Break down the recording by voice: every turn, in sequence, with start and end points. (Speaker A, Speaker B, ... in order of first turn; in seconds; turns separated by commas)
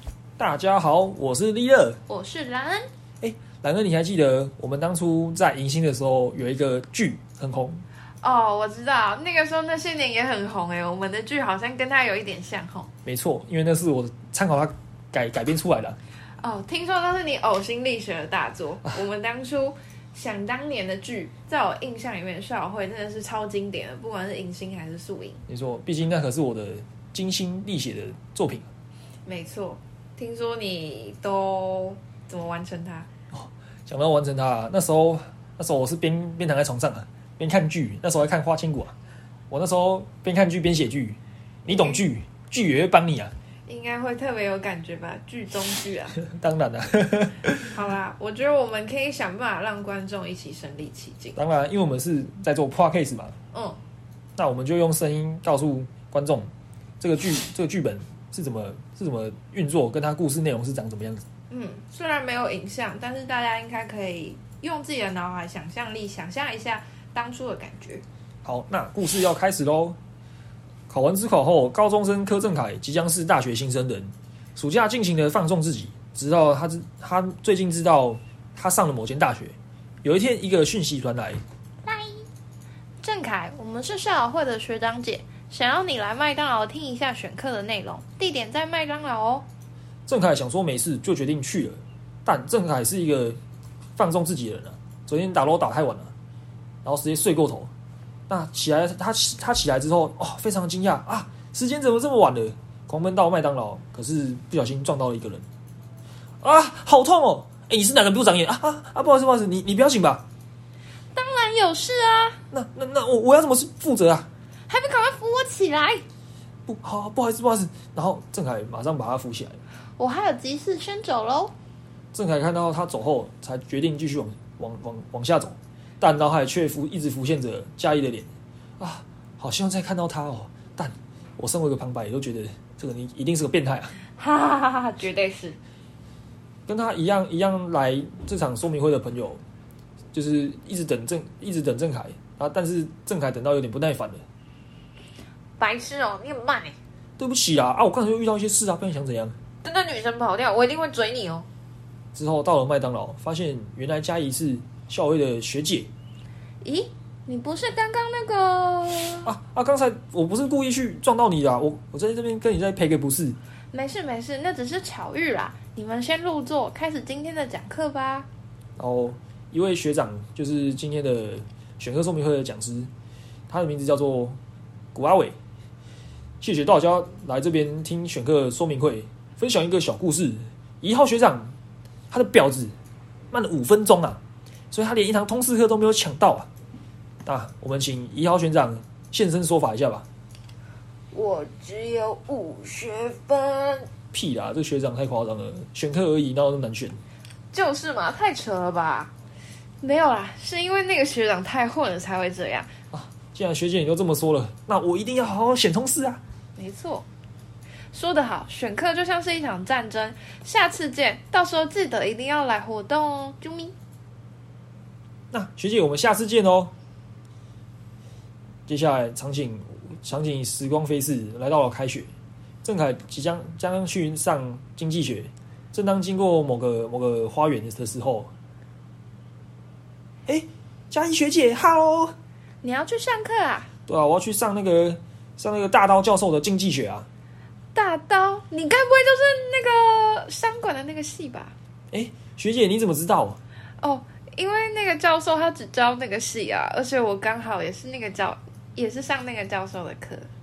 Speaker A: 0.4-2.0, Speaker B: 2.1-2.9, Speaker A: 3.2-7.8, Speaker B: 8.2-12.9, Speaker A: 13.0-16.0, Speaker B: 16.4-25.4, Speaker A: 25.5-28.7, Speaker B: 29.2-33.1, Speaker A: 33.3-38.9, Speaker A: 39.5-43.3, Speaker B: 41.7-42.0, Speaker B: 43.7-46.2, Speaker A: 46.1-47.8, Speaker B: 47.7-51.4, Speaker A: 51.4-53.3, Speaker B: 53.5-53.8, Speaker A: 54.4-61.2, Speaker B: 61.5-68.0, Speaker A: 68.5-70.0, Speaker A: 70.9-81.4, Speaker B: 81.8-82.2, Speaker B: 83.0-89.5, Speaker A: 90.1-93.4, Speaker A: 94.0-96.1, Speaker A: 96.8-97.7, Speaker A: 98.3-105.5, Speaker A: 106.4-110.2, Speaker B: 111.2-112.4, Speaker A: 112.5-114.3, Speaker B: 114.7-116.0, Speaker A: 116.7-119.6, Speaker B: 120.0-121.5, Speaker A: 122.1-133.9, Speaker B: 134.2-135.6, Speaker A: 136.7-139.4, Speaker A: 140.1-144.2, Speaker B: 145.6-146.7, Speaker A: 147.2-149.3, Speaker B: 149.6-151.5, Speaker A: 152.1-155.9, Speaker B: 156.6-159.3, Speaker A: 159.2-163.4, Speaker B: 163.7-168.3, Speaker A: 168.8-172.9, Speaker A: 173.5-174.4, Speaker A: 174.9-175.3, Speaker A: 176.4-181.5, Speaker A: 182.1-182.7, Speaker A: 183.3-184.2, Speaker A: 184.7-186.5, Speaker A: 187.2-190.0, Speaker B: 191.1-193.9, Speaker A: 194.1-197.0, Speaker B: 197.5-199.1, Speaker B: 199.8-202.7, Speaker A: 202.9-206.2, Speaker B: 206.6-207.1, Speaker B: 207.9-213.7, Speaker A: 215.3-216.7, Speaker A: 218.7-222.1, Speaker A: 222.6-228.3, Speaker A: 230.3-232.1, Speaker B: 232.6-233.7, Speaker A: 233.9-237.1, Speaker B: 237.7-241.5, Speaker A: 241.9-243.4, Speaker B: 243.8-250.3